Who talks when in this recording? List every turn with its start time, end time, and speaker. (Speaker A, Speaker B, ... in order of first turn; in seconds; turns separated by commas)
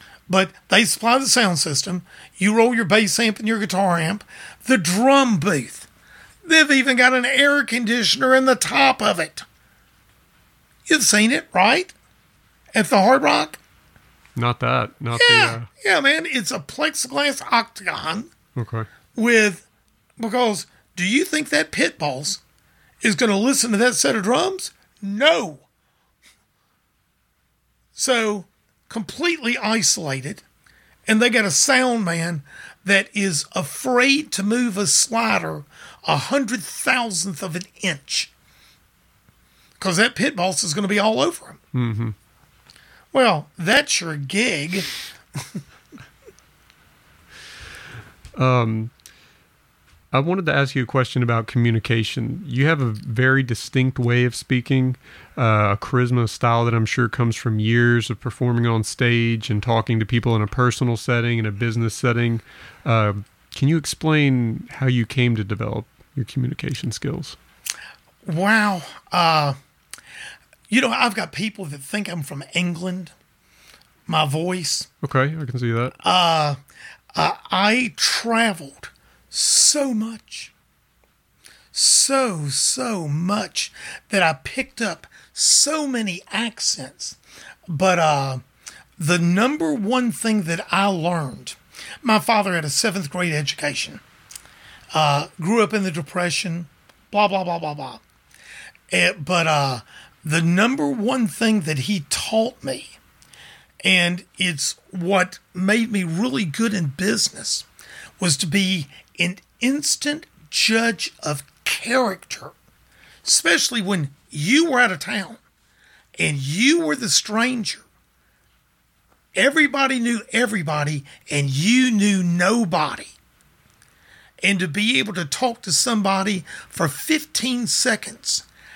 Speaker A: 0.3-5.9, Speaker A: 6.4-9.4, Speaker A: 10.9-11.9, Speaker A: 12.7-13.6, Speaker B: 14.3-15.7, Speaker A: 15.2-18.3, Speaker B: 18.6-18.9, Speaker A: 19.1-19.6, Speaker A: 20.2-22.4, Speaker A: 23.0-25.6, Speaker A: 27.9-30.4, Speaker A: 31.1-38.3, Speaker A: 39.8-41.6, Speaker B: 41.7-42.1, Speaker A: 43.1-45.6, Speaker B: 48.3-48.9, Speaker B: 50.1-67.3, Speaker A: 68.2-69.5, Speaker A: 70.7-73.1, Speaker A: 74.1-74.9, Speaker B: 75.0-75.9, Speaker A: 76.0-76.6, Speaker A: 77.1-80.5, Speaker A: 81.7-88.4, Speaker A: 89.0-94.0, Speaker A: 94.9-98.0, Speaker A: 98.9-103.0, Speaker A: 103.8-107.7, Speaker A: 108.2-112.5, Speaker A: 113.2-115.4, Speaker A: 116.2-117.8, Speaker A: 119.3-123.1, Speaker A: 124.4-128.4